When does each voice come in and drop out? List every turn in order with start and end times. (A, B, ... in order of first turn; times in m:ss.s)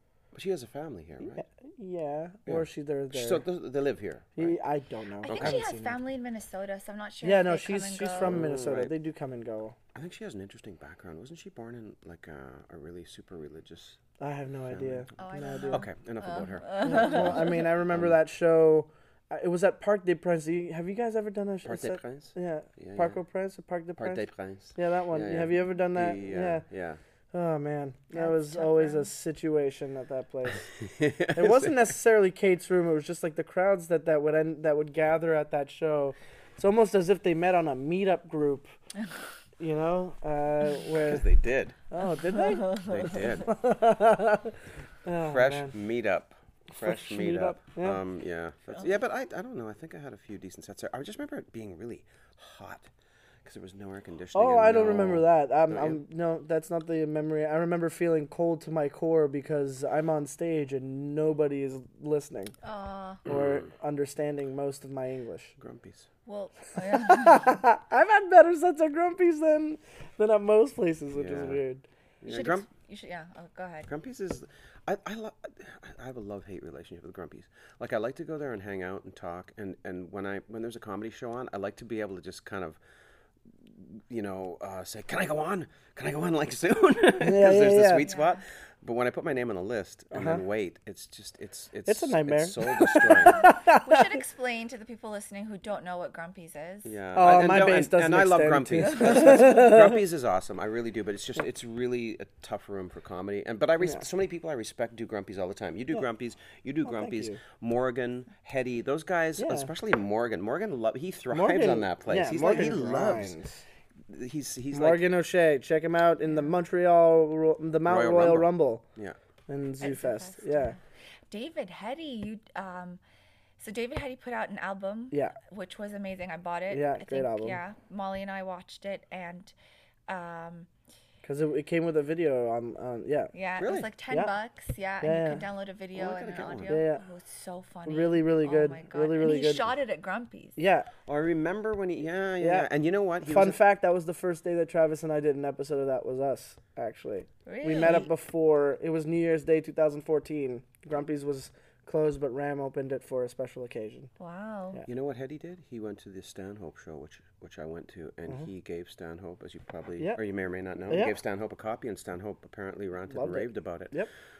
0:00.3-0:01.4 A
0:01.2-0:03.4 B
0:02.4-0:04.6 A
0:04.4-0:06.0 B
0:05.2-0:08.4 C
0:05.3-0:05.6 A
0:07.2-0:09.8 B
0:08.2-0:08.9 A
0:09.9-0:14.0 A
0:14.2-0:15.8 B
0:14.7-0:15.1 A
0:15.2-0:17.6 C
0:15.7-0:18.2 A
0:16.8-0:26.6 B
0:21.6-0:23.2 A
0:24.0-0:27.0 A
0:27.3-0:30.6 B
0:28.1-0:29.1 C
0:30.8-0:31.9 A
0:31.3-0:38.7 B
0:39.6-0:41.3 B
0:40.9-0:41.8 A
0:41.9-0:45.8 B
0:42.3-0:43.0 C
0:42.8-0:43.5 A
0:45.2-0:52.9 A
0:46.7-0:48.0 B
0:53.4-0:56.0 A
0:54.3-1:02.5 B
1:02.6-1:03.2 C
1:03.2-1:05.5 B
1:03.2-1:03.7 A
1:05.6-1:06.1 A
1:06.2-1:07.6 C
1:06.8-1:11.8 B
1:11.1-1:11.6 A
1:12.2-1:12.6 A
1:12.2-1:13.9 C
1:13.9-1:22.8 A
1:23.6-1:33.4 A
1:27.2-1:28.0 B
1:28.1-1:28.3 C
1:30.1-1:30.4 B
1:31.8-1:34.0 B
1:33.3-1:36.9 C
1:36.8-1:53.4 A
1:37.1-1:40.0 B
1:46.8-1:47.4 B
1:49.4-1:49.7 B
1:51.3-1:53.6 B
1:54.1-1:55.0 A
1:54.7-1:58.8 B
1:57.8-1:59.2 A
1:59.5-2:00.8 B
1:59.8-2:00.8 C
2:01.3-2:03.0 C
2:03.6-2:09.5 C
2:05.1-2:05.4 B
2:06.7-2:07.6 B
2:10.1-2:10.7 C
2:11.2-2:13.3 B
2:13.3-2:20.6 C
2:13.6-2:13.9 A
2:14.1-2:14.3 B
2:15.0-2:15.4 B
2:15.9-2:16.8 A
2:16.7-2:17.0 B
2:17.8-2:19.6 B
2:20.6-2:20.9 B
2:21.0-2:23.6 A
2:22.4-2:22.7 B
2:23.2-2:34.1 B
2:27.4-2:28.1 C
2:34.2-2:34.8 C
2:34.9-2:43.9 A
2:40.9-2:41.1 B
2:43.1-2:44.1 B